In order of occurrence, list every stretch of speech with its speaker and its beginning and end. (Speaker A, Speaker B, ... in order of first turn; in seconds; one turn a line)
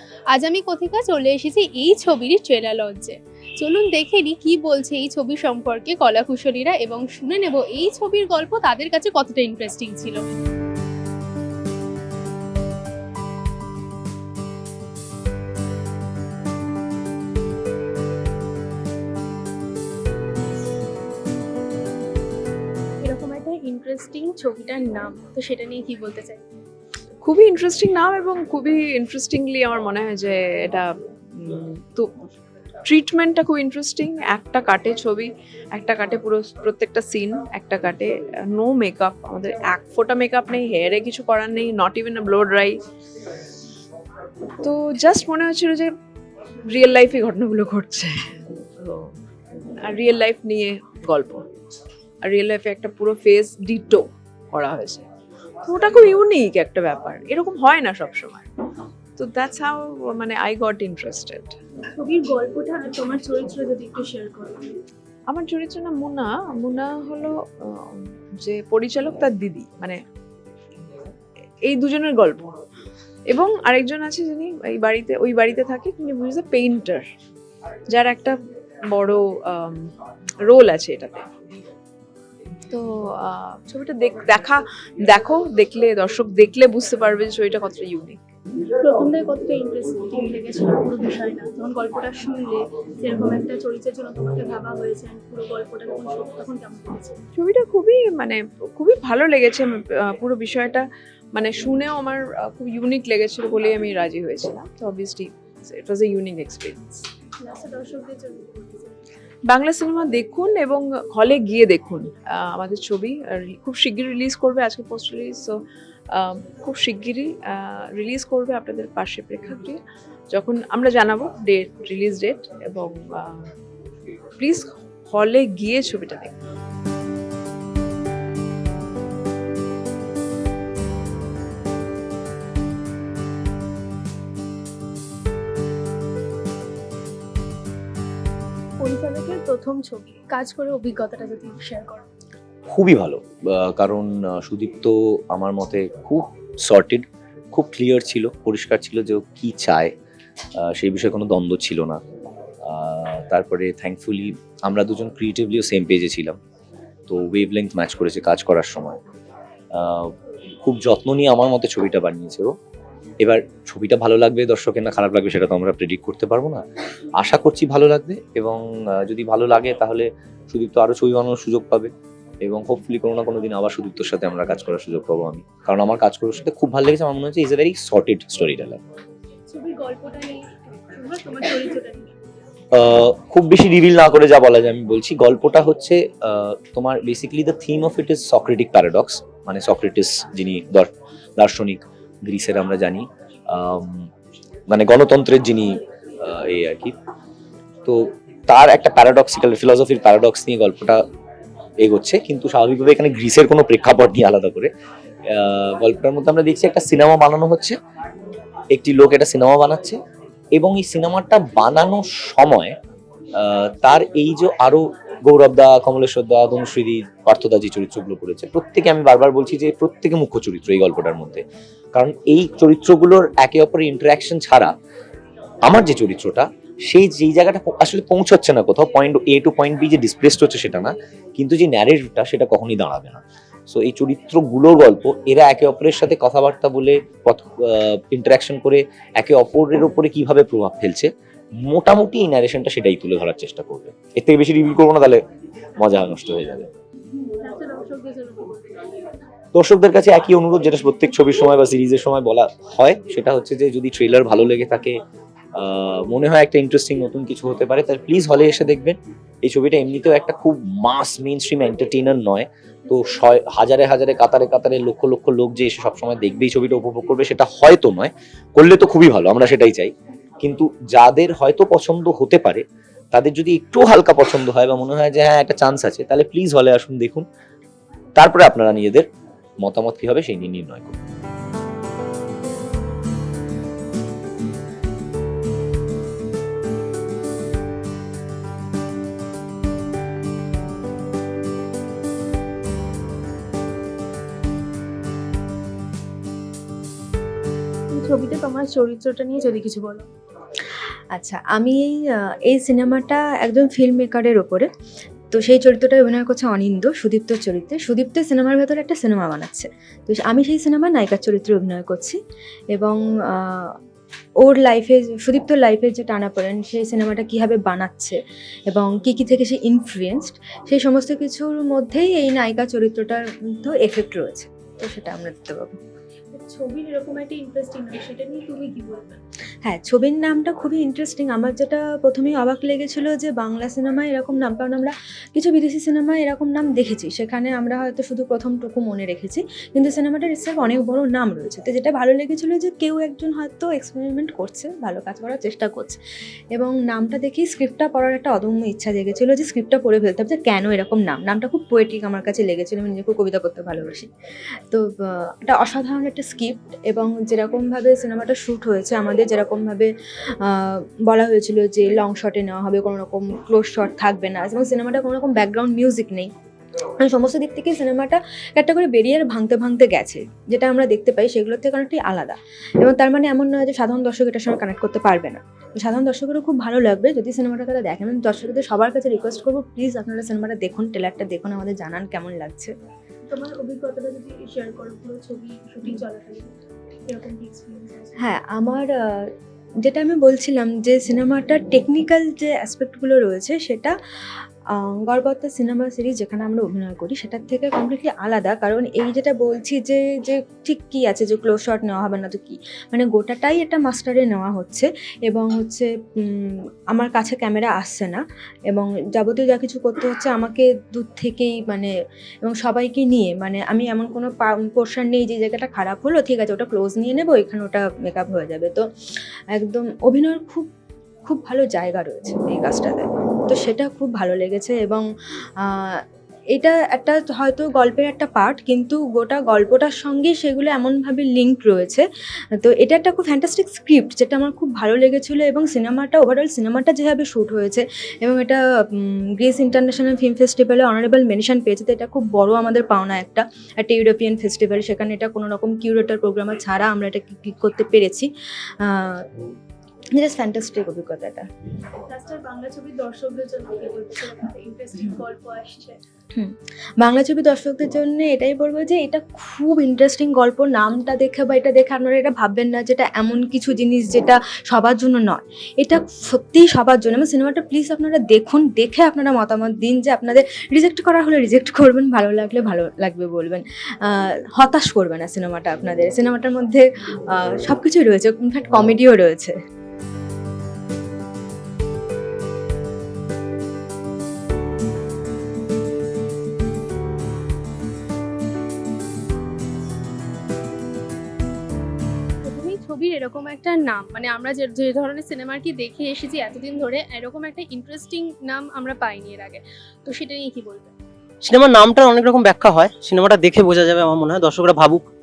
Speaker A: 0.3-10.2
Speaker A: 23.0-26.4
Speaker B: 27.2-32.1
Speaker B: 32.8-42.8
Speaker B: 44.6-46.0
Speaker B: 46.7-49.1
Speaker B: 49.8-51.5
Speaker B: 52.2-55.1
Speaker B: 55.6-58.5
Speaker B: 59.2-61.6
Speaker A: 62.0-64.7
Speaker B: 65.3-70.0
Speaker B: 71.6-72.6
Speaker B: 73.3-77.1
Speaker B: 77.9-78.4
Speaker B: 78.9-79.9
Speaker B: 80.5-81.3
Speaker B: 82.7-88.2
Speaker A: 88.8-97.2
Speaker B: 97.4-107.1
Speaker A: 107.4-108.9
Speaker B: 109.5-115.6
Speaker B: 116.1-119.8
Speaker B: 120.3-123.4
Speaker B: 124.4-126.3
Speaker A: 138.8-142.0
Speaker C: 142.7-149.9
Speaker C: 150.6-152.0
Speaker C: 152.6-156.4
Speaker C: 157.1-159.0
Speaker C: 159.7-162.5
Speaker C: 163.2-166.6
Speaker C: 167.2-171.9
Speaker C: 172.4-178.8
Speaker A: 179.5-180.4
Speaker A: 180.9-182.1
Speaker C: 182.7-194.1
Speaker C: 194.7-196.9
Speaker C: 197.8-201.0
Speaker C: 201.8-204.7
Speaker C: 205.3-207.8
Speaker C: 208.7-210.0
Speaker C: 210.6-212.8
Speaker C: 213.3-221.4
Speaker C: 221.9-224.7
Speaker C: 225.6-241.1
Speaker C: 241.6-245.2
Speaker C: 245.8-246.7
Speaker A: 247.4-249.1
Speaker C: 249.6-255.0
Speaker C: 255.6-277.2
Speaker C: 278.1-279.1
Speaker C: 279.6-280.9
Speaker A: 297.9-300.1
Speaker D: 301.1-304.7
Speaker D: 305.3-312.2
Speaker D: 312.7-313.7
Speaker D: 314.4-318.1
Speaker D: 318.7-325.7
Speaker A: 326.3-329.2
Speaker D: 329.6-346.0
Speaker D: 346.5-354.1
Speaker D: 354.7-359.9
Speaker D: 360.4-366.3
Speaker D: 367.0-382.7
Speaker A: 383.3-388.2
Speaker D: 388.2-388.9
Speaker D: 389.8-393.9
Speaker D: 394.8-411.9
Speaker D: 412.4-418.8
Speaker D: 419.6-420.7
Speaker D: 421.2-425.0
Speaker D: 425.6-426.0
Speaker D: 426.5-432.0
Speaker D: 432.6-448.3
Speaker D: 448.8-449.4
Speaker D: 450.1-451.4
Speaker A: 452.1-456.0
Speaker D: 456.4-479.5
Speaker A: 492.4-500.9
Speaker E: 501.4-505.1